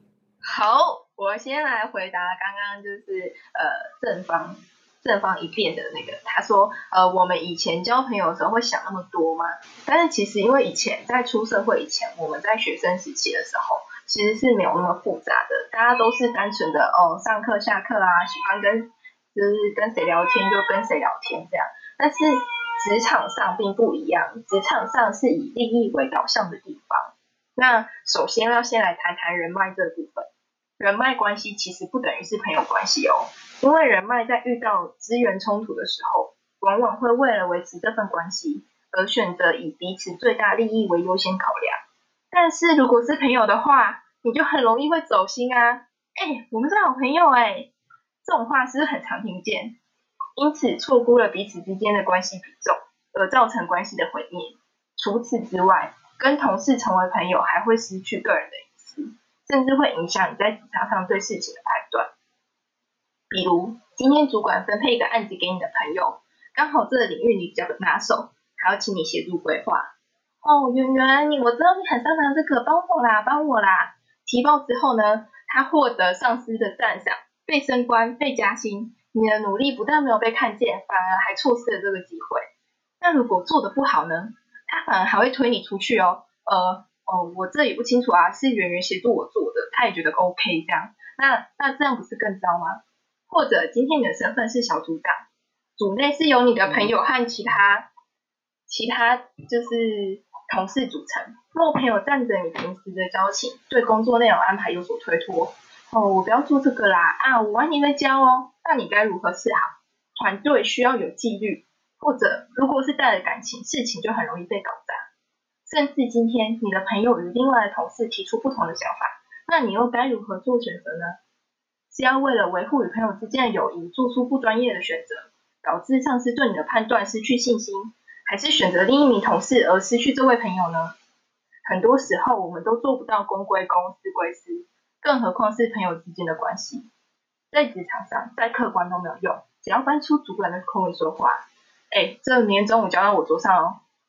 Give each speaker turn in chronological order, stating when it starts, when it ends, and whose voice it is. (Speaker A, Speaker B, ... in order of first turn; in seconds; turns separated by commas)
Speaker A: 0.4-41.8, Speaker A: 42.3-47.7, Speaker A: 48.2-49.8, Speaker A: 50.4-62.1, Speaker A: 63.3-82.4, Speaker A: 83.0-95.2, Speaker A: 95.8-97.9, Speaker A: 98.7-115.0, Speaker A: 115.7-121.2, Speaker A: 121.9-130.9, Speaker A: 131.6-136.9, Speaker A: 137.5-143.8